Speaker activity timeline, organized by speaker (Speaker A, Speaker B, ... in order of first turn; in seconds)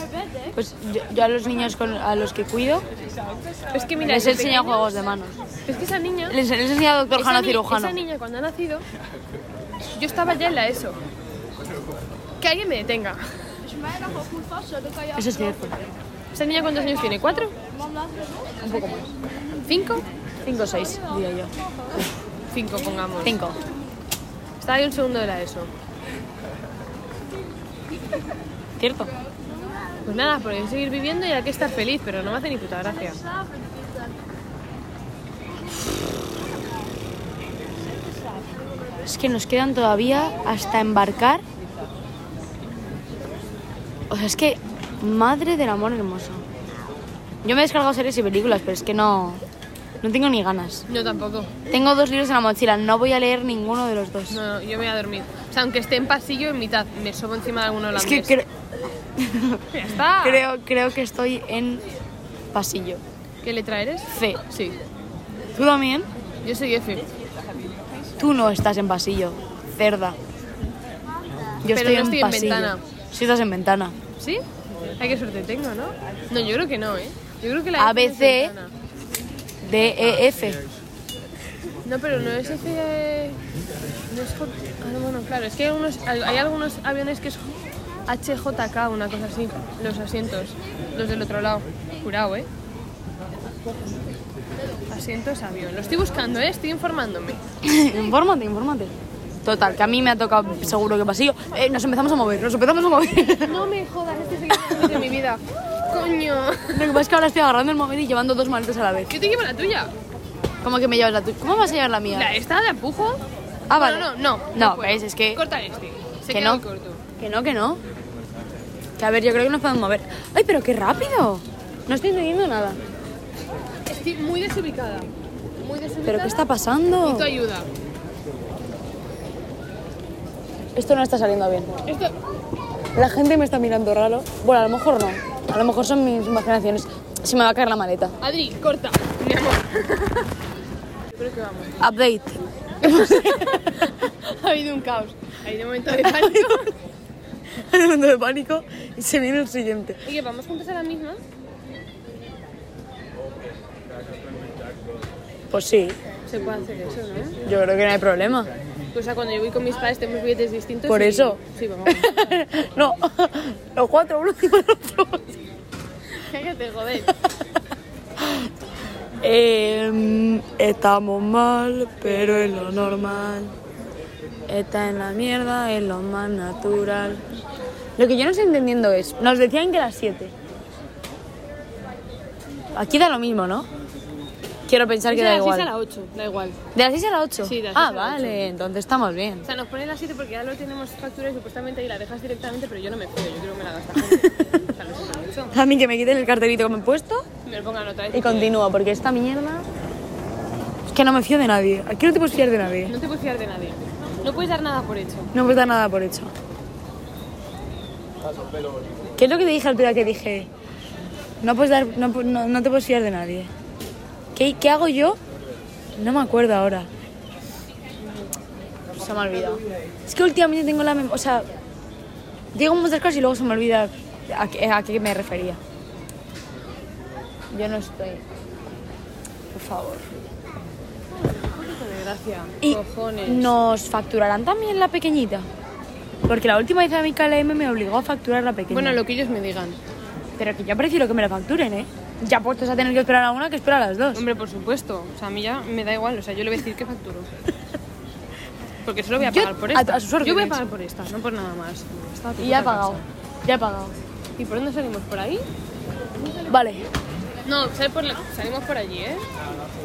Speaker A: 0.5-2.9, 4.0-5.4, 6.3-8.0, 15.1-15.8, 18.6-19.1, 20.4-21.5, 23.2-23.6, 28.8-29.1, 39.0-41.4, 44.1-46.4, 47.4-49.4, 50.0-50.9, 51.7-54.4, 58.0-58.5, 59.2-59.6, 60.2-61.9, 62.5-63.0, 64.1-64.4, 65.5-66.1, 68.2-70.2, 71.6-74.0, 77.8-78.5, 79.6-80.6, 97.6-98.9, 99.4-103.7, 106.7-109.1, 110.6-112.3, 113.7-115.4, 116.3-116.6, 117.2-117.8, 119.0-122.8, 126.0-127.3, 130.8-131.7, 132.9-138.2, 141.8-143.9, 146.0-146.6, 147.5-150.0, 155.5-156.0, 157.4-158.5, 160.9-165.3, 168.2-168.5, 169.2-173.5, 174.5-177.2, 178.0-180.3, 182.7-183.7, 184.7-185.7, 186.7-189.5, 194.0-194.6, 195.5-197.2, 198.1-199.7, 200.9-202.9, 205.3-206.3, 209.2-210.5, 211.4-213.5, 214.3-215.2, 216.0-216.9, 218.9-221.4, 222.5-225.6, 227.5-228.2, 229.5-230.1, 232.6-235.4, 236.3-239.0, 240.4-244.2, 249.2-250.6, 252.4-253.9, 256.4-256.9
Speaker B: 3.7-5.0, 5.7-6.4, 7.1-8.8, 9.9-11.0, 12.4-13.2, 16.3-17.5, 19.6-20.0, 22.5-23.4, 24.6-25.7, 30.0-33.2, 50.9-51.5, 54.3-58.4, 59.7-60.4, 63.4-64.8, 66.4-67.1, 71.7-72.8, 74.2-74.4, 75.0-78.7, 81.8-83.4, 84.1-87.5, 88.1-92.5, 94.9-97.4, 103.4-107.0, 109.1-109.9, 112.1-113.2, 113.8-117.0, 123.9-126.4, 127.0-127.7, 131.8-132.2, 138.2-140.3, 141.1-141.8, 142.8-146.7, 150.0-151.2, 156.3-157.4, 158.9-162.2, 166.2-167.2, 185.1-186.6, 187.4-188.4, 189.4-195.6, 197.4-198.6, 202.8-205.3, 231.2-233.6, 238.7-239.8, 244.1-247.3, 248.8-253.1, 254.4-255.5, 257.4-259.2